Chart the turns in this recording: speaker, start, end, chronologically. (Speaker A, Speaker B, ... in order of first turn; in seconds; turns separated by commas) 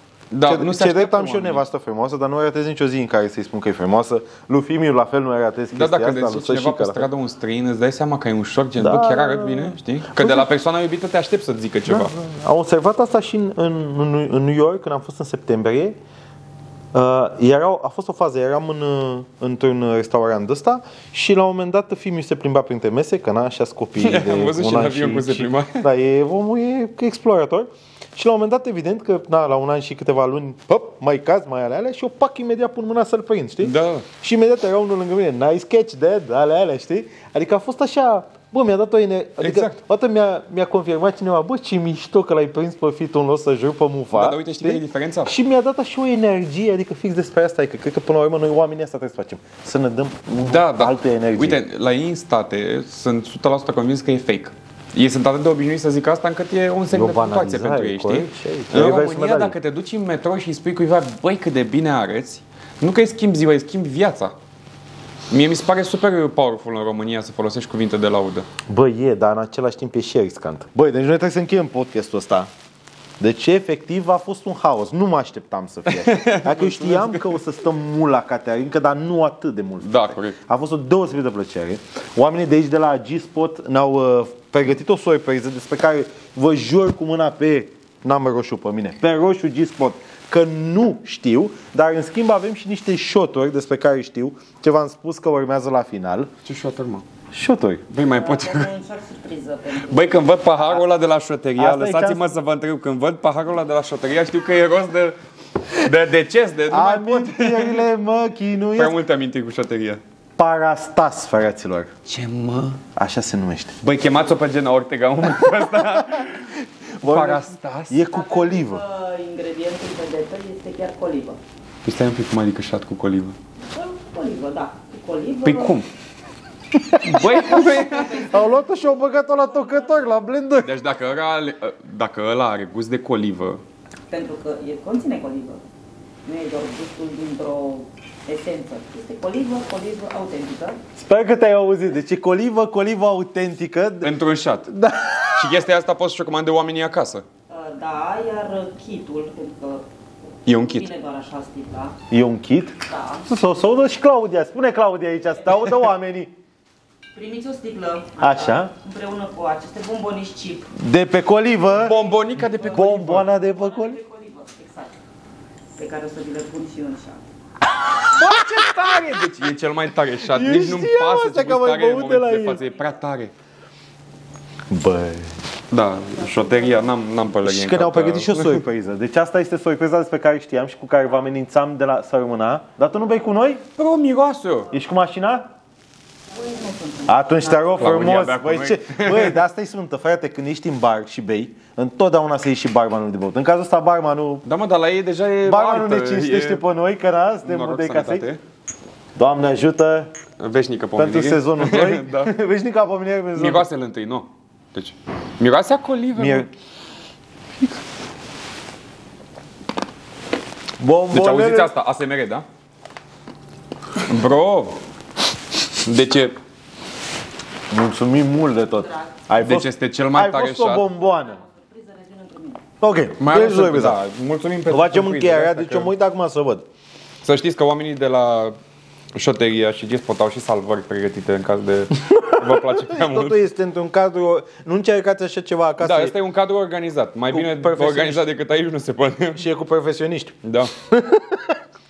Speaker A: 0.3-1.6, Speaker B: 0.5-7.1, Speaker A: 5.7-12.1, Speaker B: 8.8-10.5, Speaker B: 11.9-16.0, Speaker B: 16.9-51.6, Speaker A: 24.0-25.8, Speaker A: 33.6-34.0, Speaker A: 39.4-39.8, Speaker A: 44.1-45.3, Speaker A: 50.4-64.3, Speaker B: 56.9-59.5, Speaker A: 65.3-68.5, Speaker B: 68.7-72.5, Speaker B: 73.2-96.3, Speaker A: 75.9-77.4, Speaker A: 79.8-80.3, Speaker A: 96.4-97.0, Speaker B: 97.3-97.8, Speaker A: 97.9-98.7, Speaker C: 98.1-100.2, Speaker A: 99.9-105.2, Speaker B: 101.6-102.3, Speaker A: 105.7-107.8, Speaker B: 106.7-109.0, Speaker A: 108.7-110.0, Speaker B: 110.4-111.9, Speaker A: 112.0-112.8, Speaker B: 112.9-113.8, Speaker A: 113.8-118.0, Speaker B: 115.9-116.2, Speaker B: 117.0-118.8, Speaker C: 118.1-121.4, Speaker A: 121.8-123.3, Speaker C: 123.7-125.8, Speaker A: 125.4-125.8, Speaker A: 127.0-128.2, Speaker C: 127.2-130.1, Speaker B: 128.1-130.7, Speaker A: 130.6-133.6, Speaker C: 134.1-135.6, Speaker C: 136.2-140.8, Speaker B: 141.0-144.1, Speaker A: 144.0-144.7, Speaker B: 144.7-145.6, Speaker A: 145.3-147.2, Speaker C: 147.5-149.8, Speaker A: 150.4-150.9, Speaker C: 150.5-152.0, Speaker B: 152.1-156.3, Speaker C: 152.9-153.2, Speaker C: 157.1-160.7, Speaker B: 158.2-158.7, Speaker B: 160.7-162.0, Speaker A: 161.7-163.3, Speaker C: 162.4-162.7, Speaker B: 162.7-164.0, Speaker C: 163.4-164.9, Speaker C: 165.8-167.2, Speaker A: 168.1-173.3, Speaker B: 170.2-172.6, Speaker B: 174.7-175.3, Speaker A: 175.7-178.6, Speaker B: 177.4-183.6, Speaker A: 183.8-184.7, Speaker B: 184.7-185.5, Speaker C: 186.3-187.6, Speaker B: 187.1-194.4, Speaker A: 187.7-189.4, Speaker A: 194.4-196.6, Speaker B: 195.4-198.3, Speaker A: 197.4-198.4, Speaker B: 199.2-200.1, Speaker A: 200.4-202.3, Speaker B: 200.9-203.7, Speaker A: 203.3-206.5, Speaker B: 206.2-206.5, Speaker B: 210.8-211.7, Speaker A: 211.1-212.4, Speaker A: 214.0-214.8, Speaker A: 215.7-216.4, Speaker B: 217.7-221.4, Speaker A: 219.4-220.8, Speaker C: 221.2-222.6, Speaker B: 222.8-224.0, Speaker A: 223.2-225.9, Speaker B: 224.7-226.7, Speaker A: 227.2-228.6, Speaker A: 229.1-233.4, Speaker B: 232.1-236.1, Speaker A: 235.8-239.4, Speaker B: 237.3-238.3, Speaker B: 239.3-241.6, Speaker A: 240.4-240.7